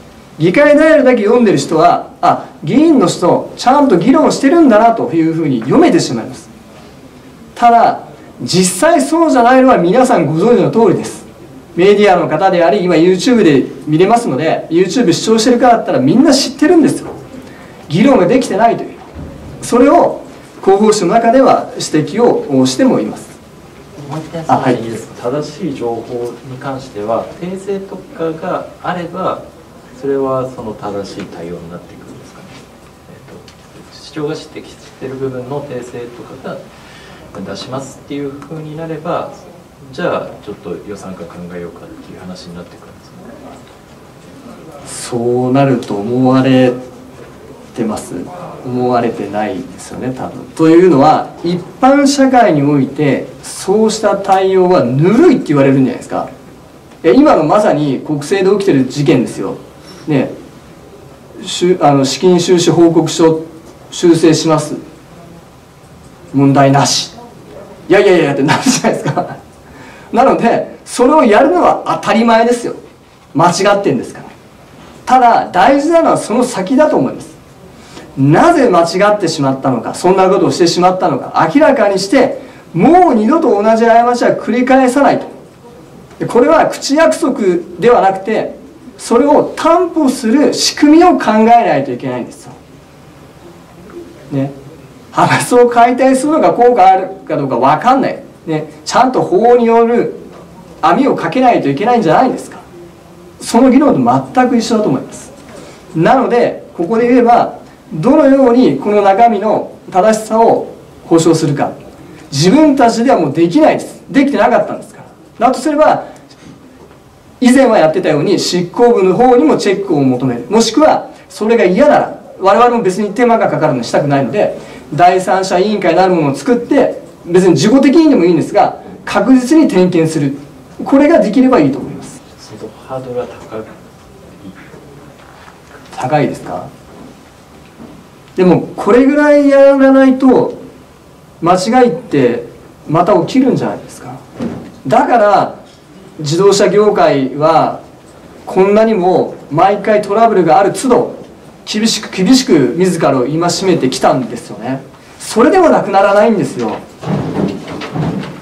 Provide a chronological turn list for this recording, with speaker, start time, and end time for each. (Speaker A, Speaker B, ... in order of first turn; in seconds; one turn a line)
Speaker A: 0.4-6.5
Speaker A: 7.5-17.1
Speaker A: 17.9-19.1
Speaker A: 19.6-23.4
Speaker B: 24.0-36.6
Speaker A: 24.5-24.8
Speaker B: 37.3-43.3
Speaker A: 44.8-46.8
Speaker A: 47.7-56.3
Speaker A: 57.0-60.3
Speaker A: 61.4-64.8
Speaker A: 66.3-67.2
Speaker A: 67.9-69.4
Speaker A: 70.1-72.8
Speaker A: 73.3-74.3
Speaker A: 75.0-77.4
Speaker A: 78.2-85.3
Speaker A: 86.2-92.5
Speaker A: 95.1-100.2
Speaker A: 100.8-102.6
Speaker A: 103.4-105.3
Speaker A: 105.9-111.8
Speaker A: 112.3-116.0
Speaker A: 117.4-132.2
Speaker B: 132.4-134.8
Speaker A: 135.9-136.7
Speaker A: 138.3-140.6
Speaker A: 141.4-144.2
Speaker A: 144.8-145.6
Speaker A: 146.2-147.8
Speaker A: 148.4-156.8